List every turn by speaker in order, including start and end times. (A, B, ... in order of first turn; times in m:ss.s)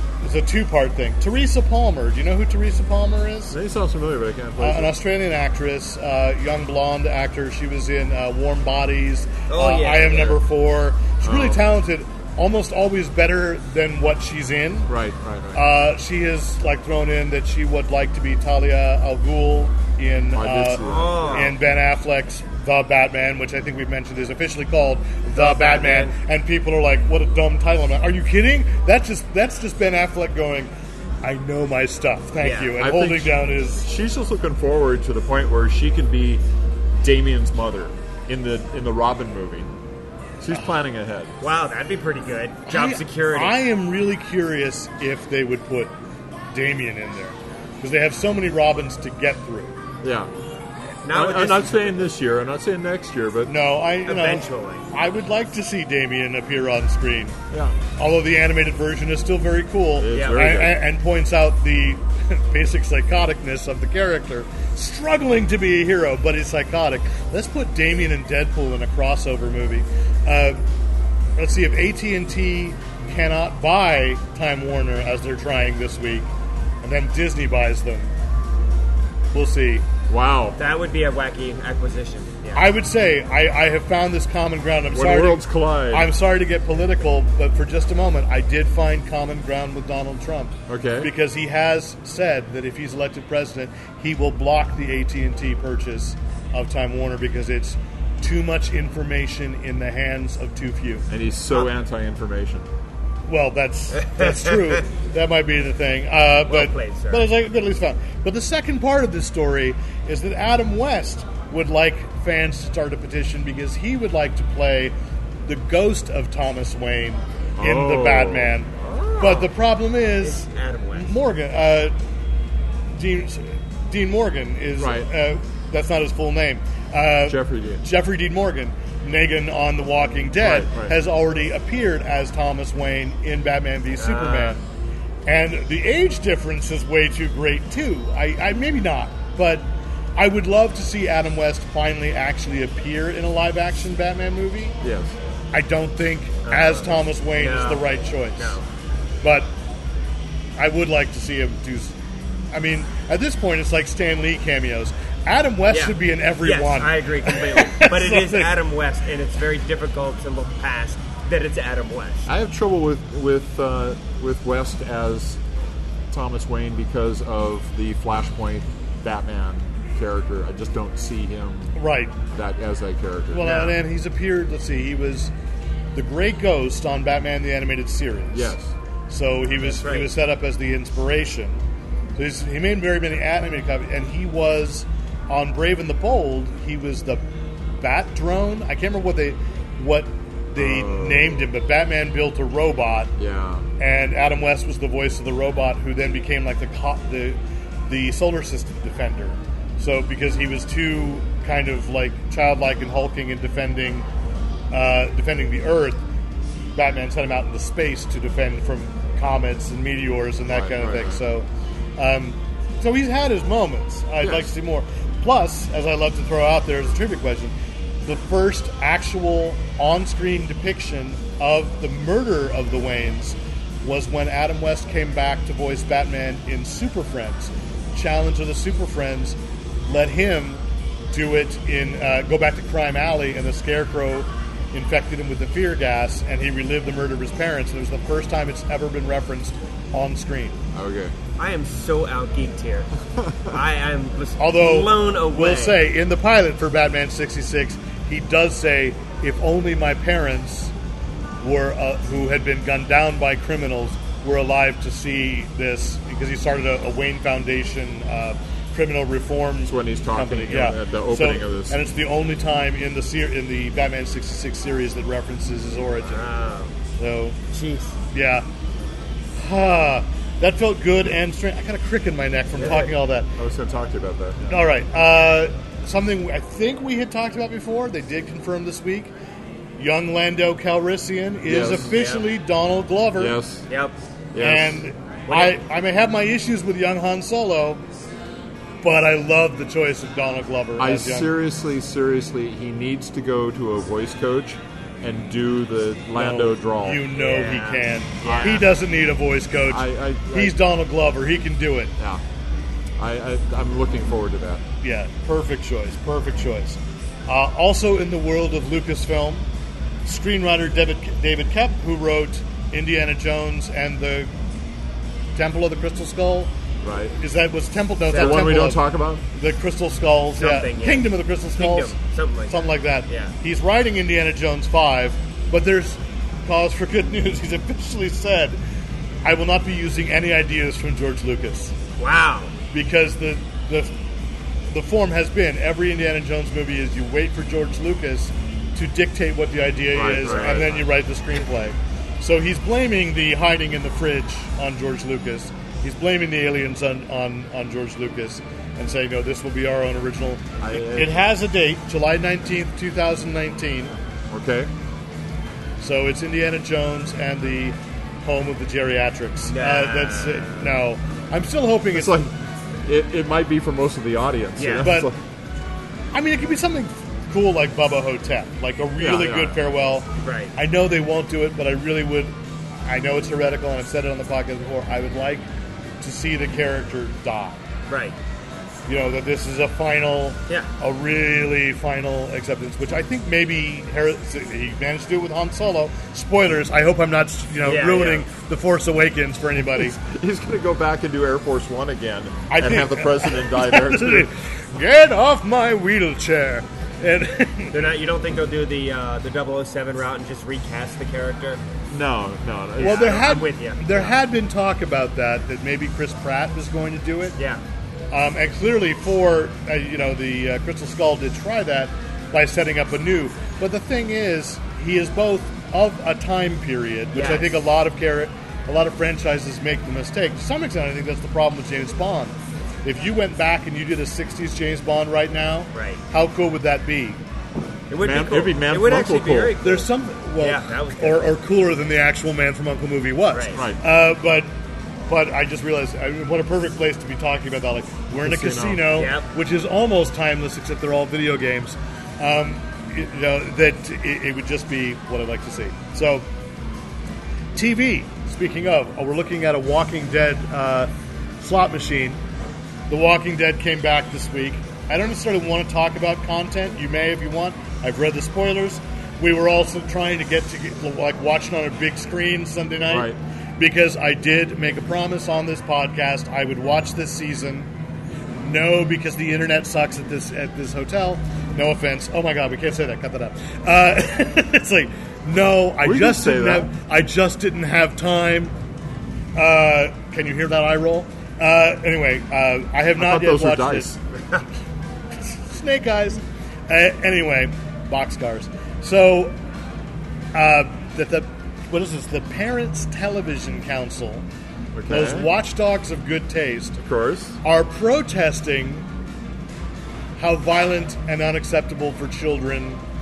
0:00.2-0:03.6 A
0:03.5-0:05.0 B
0:04.6-0:14.9 A
0:09.5-0:10.4 C
0:11.2-0:11.6 B
0:14.9-0:15.7 B
0:15.5-0:30.7 A
0:20.3-0:21.5 B
0:20.8-0:21.6 C
0:25.4-0:26.2 C
0:31.2-0:33.9 A
0:32.4-0:32.8 C
0:32.8-0:36.4 B
0:37.0-0:39.7 B
0:40.4-0:41.3 B
0:41.4-0:43.6 C
0:42.7-0:46.0 A
0:46.5-0:49.8 A
0:50.0-0:50.3 B
0:51.0-0:52.0 C
0:51.1-0:53.6 B
0:53.5-0:57.4 A
0:54.1-0:54.8 C
0:57.5-0:57.8 B
0:58.0-1:10.6 A
1:00.0-1:00.8 B
1:00.1-1:00.4 C
1:11.4-1:16.3 A
1:16.8-1:18.1 A
1:19.3-1:19.9 A
1:20.1-1:20.6 B
1:20.6-1:22.7 C
1:22.6-1:41.1 A
1:24.9-1:26.1 B
1:30.7-1:31.1 B
1:41.1-1:42.7 B
1:43.3-1:55.0 A
1:44.0-1:44.8 C
1:46.5-1:47.3 C
1:55.5-2:02.0 A
1:57.6-1:58.6 B
1:58.8-1:59.5 C
2:00.2-2:01.2 C
2:02.9-2:14.6 A
2:04.8-2:05.1 B
2:07.2-2:07.8 B
2:10.4-2:11.0 B
2:14.0-2:14.6 C
2:15.3-2:24.8 A
2:24.8-2:25.2 B
2:25.5-2:28.6 A
2:26.5-2:28.6 C
2:29.2-2:29.5 A
2:30.6-2:32.0 A
2:32.5-2:38.5 A
2:35.7-2:42.3 C
2:42.3-2:45.4 B
2:46.1-2:51.8 B
2:51.8-2:52.2 A
2:52.3-2:53.7 B
2:53.3-2:55.3 A
2:53.4-2:53.8 C
2:56.0-2:58.6 A
2:58.3-2:58.7 B
2:59.1-3:01.6 A
2:59.6-3:00.1 C
3:02.2-3:07.2 A
3:07.8-3:13.2 A
3:10.6-3:11.5 B
3:13.2-3:13.7 B
3:13.8-3:24.1 A
3:24.7-3:26.0 A
3:26.8-4:00.6 A
3:30.5-3:31.2 B
3:34.2-3:34.5 B
4:00.7-4:01.2 B
4:01.4-4:05.8 C
4:03.2-4:03.6 B
4:04.4-4:10.7 A
4:11.4-4:26.3 A
4:19.7-4:21.8 B
4:26.0-4:26.8 C
4:27.0-4:27.4 A
4:27.5-4:28.0 C
4:28.1-4:28.5 A
4:29.4-4:33.3 A
4:32.6-4:32.9 C
4:33.4-4:34.6 B
4:34.5-4:39.1 A
4:39.8-4:43.4 A
4:41.5-4:41.9 B
4:41.8-4:42.3 C
4:43.2-4:43.7 B
4:43.7-4:44.0 C
4:44.3-4:44.8 B
4:44.4-4:47.8 A
4:45.3-4:45.6 C
4:48.8-4:51.3 A
4:50.8-4:57.1 B
4:56.1-5:01.9 A
4:57.2-4:58.7 C
4:58.2-4:58.7 B
4:59.7-5:00.6 B
5:02.0-5:02.2 B
5:03.0-5:04.6 B
5:04.8-5:09.5 A
5:10.0-5:14.3 A
5:15.4-5:16.5 A
5:16.8-5:17.2 B
5:17.2-5:22.0 A
5:18.1-5:18.6 C
5:18.1-5:19.2 B
5:20.4-5:23.3 C
5:22.5-5:28.6 A
5:29.2-5:31.8 A
5:32.0-5:32.5 C
5:32.7-5:33.9 A
5:34.7-5:54.0 A
5:39.9-5:40.8 B
5:50.6-5:51.3 B
5:54.3-5:54.7 B
5:55.8-6:02.3 A
5:59.5-6:00.8 C
6:01.9-6:05.2 B
6:04.6-6:04.9 C
6:04.8-6:05.1 A
6:06.1-6:15.5 A
6:09.0-6:09.6 B
6:10.2-6:10.5 C
6:16.0-6:17.6 A
6:17.9-6:18.2 C
6:18.9-6:30.0 A
6:27.6-6:28.3 C
6:29.8-6:34.3 B
6:32.5-6:37.8 A
6:37.7-6:41.6 C
6:41.9-6:43.3 B
6:42.8-6:44.2 C
6:42.8-6:47.4 A
6:47.4-6:47.6 C
6:48.1-7:07.2 A
6:57.1-6:57.6 C
7:05.7-7:06.0 C
7:07.9-7:11.4 C
7:08.0-7:09.6 B
7:09.6-7:14.5 A
7:13.3-7:13.6 C
7:13.5-7:13.8 B
7:15.1-7:26.3 A
7:18.2-7:18.9 B
7:18.9-7:19.3 C
7:27.6-7:32.2 A
7:32.9-7:47.7 A
7:42.9-7:43.2 B
7:48.4-7:58.6 A
7:55.8-7:56.7 B
7:59.4-8:04.0 A
8:03.0-8:04.0 B
8:05.2-8:09.4 A
8:10.3-8:14.2 A
8:14.7-8:15.3 B
8:14.9-8:16.8 A
8:16.8-8:17.4 B
8:17.4-8:18.9 A
8:20.2-8:22.8 A